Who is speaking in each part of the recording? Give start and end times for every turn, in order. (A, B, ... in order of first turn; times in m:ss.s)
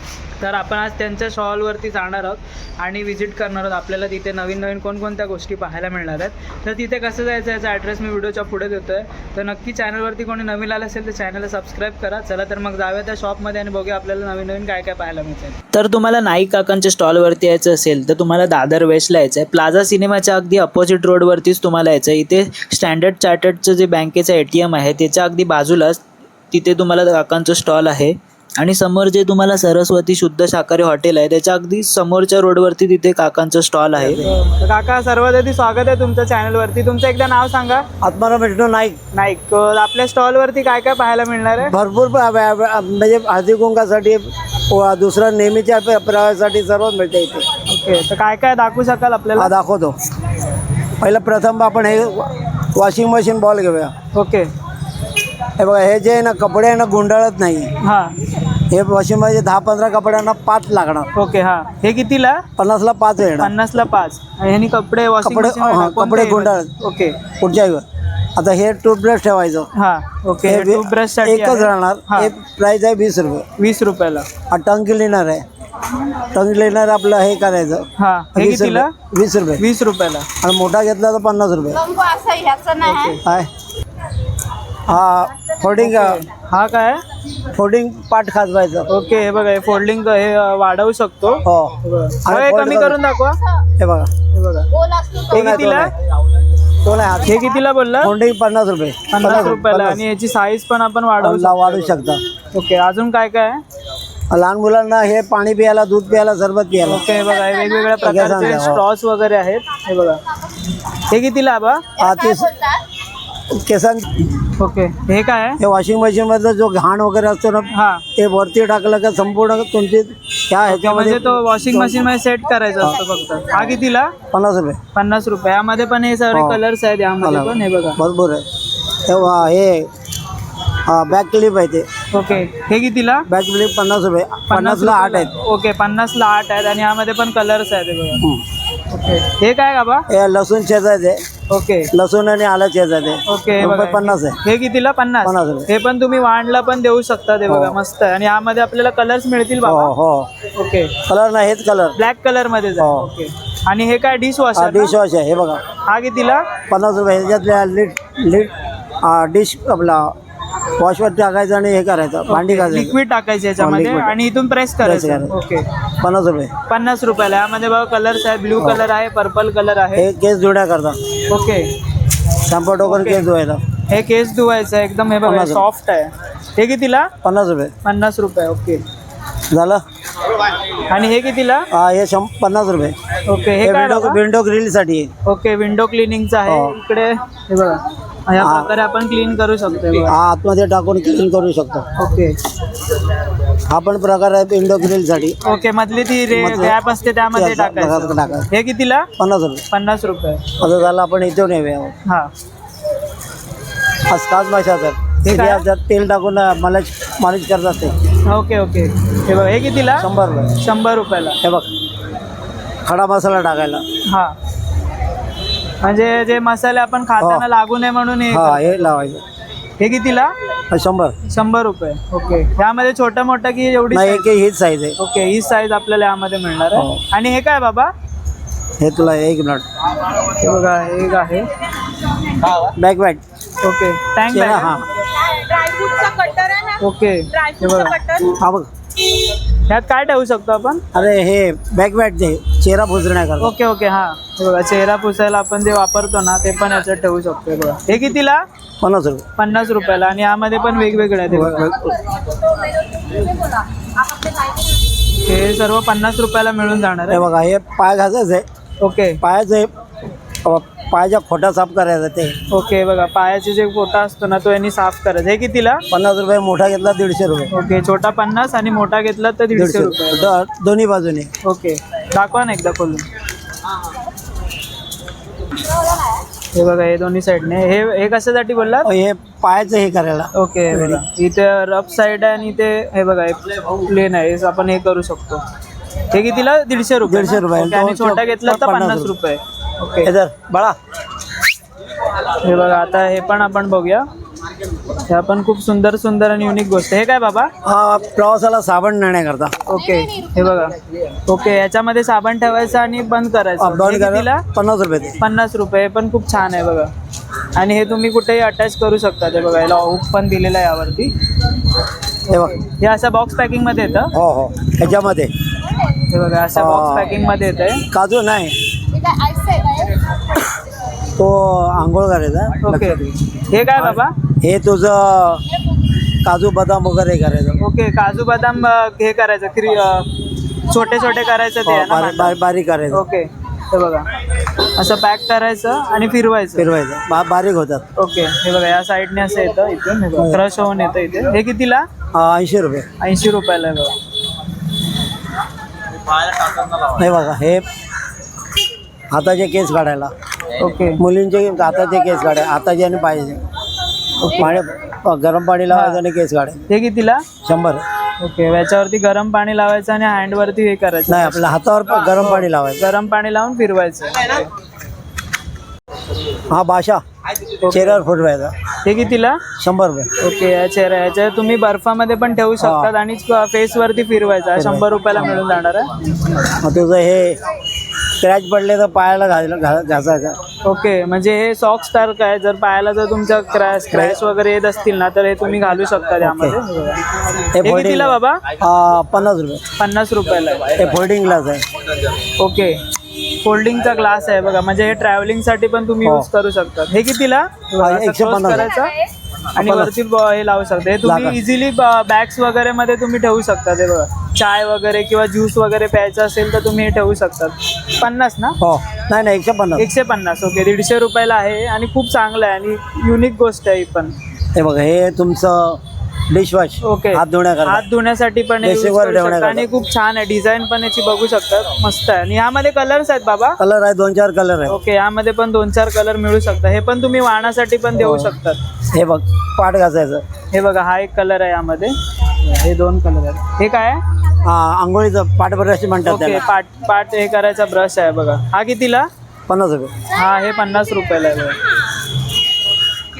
0:00.4-0:26.0 A
0:26.5-0:37.9 A
0:34.0-0:34.4 B
0:38.0-0:39.0 B
0:39.1-0:41.8 A
0:41.6-0:47.5 B
0:47.7-0:49.5 A
0:49.4-0:50.0 B
0:51.0-0:53.9 B
0:54.1-0:54.5 A
0:55.6-0:57.7 B
0:57.8-0:58.2 A
0:58.7-1:01.1 B
1:01.2-1:02.4 A
1:02.6-1:03.5 B
1:03.4-1:07.2 A
1:05.2-1:06.7 B
1:07.4-1:07.8 B
1:08.4-1:09.7 B
1:09.7-1:12.3 A
1:10.5-1:13.5 B
1:13.6-1:14.3 A
1:14.5-1:15.4 B
1:16.1-1:19.6 B
1:18.0-1:18.9 A
1:19.6-1:20.3 A
1:20.4-1:21.9 B
1:21.9-1:22.8 C
1:22.7-1:23.2 A
1:23.2-1:23.5 B
1:24.9-1:26.2 B
1:25.8-1:27.0 A
1:27.5-1:28.9 B
1:28.9-1:33.4 A
1:31.4-1:33.0 B
1:33.8-1:34.1 B
1:34.3-1:35.9 A
1:35.3-1:35.9 B
1:36.8-1:37.4 B
1:37.3-1:38.1 A
1:38.0-1:40.0 B
1:39.1-1:42.0 A
1:41.2-1:42.2 B
1:42.5-1:43.6 A
1:44.3-1:47.1 B
1:46.8-1:50.2 A
1:48.0-1:48.8 B
1:51.1-1:51.9 A
1:52.0-1:52.7 B
1:53.5-1:54.3 B
1:54.6-1:55.6 A
1:55.6-2:02.0 B
1:57.7-1:58.0 A
2:00.7-2:04.2 A
2:04.3-2:04.8 B
2:04.9-2:08.0 A
2:06.3-2:06.6 B
2:07.2-2:08.4 B
2:09.0-2:09.9 B
2:10.9-2:11.9 B
2:12.1-2:13.3 A
2:13.3-2:15.3 B
2:14.5-2:18.2 A
2:18.2-2:18.4 B
2:18.9-2:20.1 A
2:20.1-2:21.2 B
2:21.5-2:21.9 A
2:21.9-2:24.4 B
2:23.3-2:29.9 A
2:25.2-2:25.7 B
2:27.5-2:27.8 B
2:29.6-2:30.3 B
2:30.5-2:31.0 A
2:31.0-2:32.0 B
2:32.0-2:34.9 A
2:32.8-2:33.1 B
2:34.6-2:35.6 B
2:35.9-2:36.5 A
2:36.7-2:40.2 B
2:40.8-2:43.0 B
2:42.3-2:45.7 A
2:43.6-2:44.2 B
2:44.8-2:45.3 B
2:46.0-2:46.5 B
2:46.7-2:50.1 A
2:50.0-2:51.0 B
2:51.3-2:51.7 A
2:52.4-2:53.6 B
2:52.8-2:53.3 A
2:53.9-2:57.1 A
2:55.2-2:55.6 B
2:57.2-2:57.7 B
2:57.8-2:58.8 A
2:59.5-2:59.8 B
3:00.9-3:01.7 A
3:01.7-3:03.0 B
3:03.2-3:04.2 A
3:03.6-3:05.1 B
3:05.2-3:10.2 A
3:06.5-3:06.8 B
3:08.4-3:08.7 B
3:10.0-3:11.9 B
3:12.0-3:12.4 A
3:13.7-3:15.4 B
3:15.4-3:19.1 A
3:16.3-3:16.8 B
3:17.3-3:18.5 B
3:19.2-3:19.6 B
3:19.7-3:20.5 A
3:20.6-3:22.0 B
3:22.0-3:22.3 A
3:24.1-3:28.0 B
3:25.2-3:25.7 A
3:28.3-3:30.1 A
3:30.0-3:30.6 B
3:30.6-3:31.4 A
3:31.4-3:31.7 B
3:32.8-3:33.8 B
3:34.0-3:34.4 A
3:35.8-3:38.8 A
3:37.2-3:37.4 B
3:38.3-3:39.2 B
3:39.8-3:40.3 A
3:40.7-3:41.2 B
3:41.3-3:44.3 A
3:43.9-3:45.0 B
3:45.0-3:47.9 A
3:46.7-3:47.0 B
3:48.8-3:49.6 B
3:50.2-3:51.5 A
3:52.6-3:53.2 B
3:53.6-3:54.7 A
3:54.3-3:54.8 B
3:55.3-3:56.8 C
3:56.8-3:58.2 A
3:58.3-3:58.7 B
3:59.7-4:00.8 A
4:00.9-4:03.5 B
4:03.4-4:08.4 A
4:08.8-4:09.2 B
4:09.4-4:11.8 A
4:11.3-4:12.0 B
4:15.2-4:17.3 A
4:17.1-4:18.4 B
4:18.8-4:19.2 A
4:19.2-4:19.7 B
4:20.4-4:22.4 B
4:22.5-4:25.8 A
4:25.9-4:27.5 B
4:27.5-4:30.3 A
4:29.6-4:31.3 B
4:31.4-4:33.1 A
4:36.5-4:38.9 A
4:38.8-4:41.0 B
4:40.4-4:45.4 A
4:46.1-4:50.1 A
4:47.0-4:49.1 B
4:50.0-4:50.8 B
4:52.4-4:54.0 A
4:55.0-4:57.5 A
4:57.6-4:59.6 B
4:59.7-5:00.8 A
5:01.3-5:04.4 A
5:03.6-5:05.2 B
5:05.2-5:06.9 A
5:07.6-5:11.1 A
5:12.3-5:12.6 B
5:12.3-5:14.1 A
5:14.1-5:15.3 B
5:15.9-5:17.9 A
5:16.5-5:17.2 B
5:17.9-5:18.6 B
5:19.0-5:19.9 C
5:21.2-5:23.1 B
5:22.6-5:24.2 A
5:23.8-5:25.4 B
5:26.2-5:27.6 B
5:27.6-5:30.1 A
5:30.7-5:32.3 A
5:31.6-5:33.0 B
5:32.9-5:36.7 A
5:36.6-5:37.8 B
5:38.0-5:41.9 A
5:40.2-5:40.4 B
5:42.1-5:42.9 B
5:43.0-5:44.0 A
5:46.7-5:47.6 B
5:49.1-5:50.1 B
5:50.5-5:51.0 A
5:51.0-5:53.4 B
5:54.2-5:56.6 B
5:54.3-5:54.6 A
5:55.7-5:56.0 A
5:56.7-5:57.3 A
5:57.4-5:57.8 B
5:58.2-6:01.4 A
6:01.1-6:02.8 B
6:02.0-6:04.5 A
6:06.4-6:07.0 B
6:07.6-6:08.0 A
6:07.7-6:08.5 B
6:08.8-6:09.4 A
6:09.6-6:10.1 B
6:10.2-6:16.4 A
6:12.6-6:12.9 B
6:14.6-6:15.3 B
6:16.5-6:17.4 B
6:18.2-6:20.4 B
6:20.6-6:27.0 A
6:23.9-6:24.2 B
6:26.2-6:26.6 B
6:27.5-6:29.6 B
6:27.6-6:28.5 A
6:29.8-6:31.0 A
6:30.8-6:31.6 B
6:32.4-6:32.8 A
6:33.4-6:39.0 A
6:37.8-6:38.7 B
6:39.5-6:48.6 A
6:39.6-6:39.9 B
6:41.0-6:41.4 B
6:48.6-6:49.9 B
6:49.8-6:54.1 A
6:54.6-6:57.9 B
6:56.8-7:03.6 A
6:58.6-6:59.7 B
7:03.6-7:04.8 B
7:04.7-7:08.6 A
7:08.0-7:08.3 B
7:08.9-7:10.2 B
7:10.5-7:14.0 A
7:14.4-7:16.5 B
7:16.1-7:19.1 A
7:19.5-7:19.9 B
7:20.1-7:21.6 A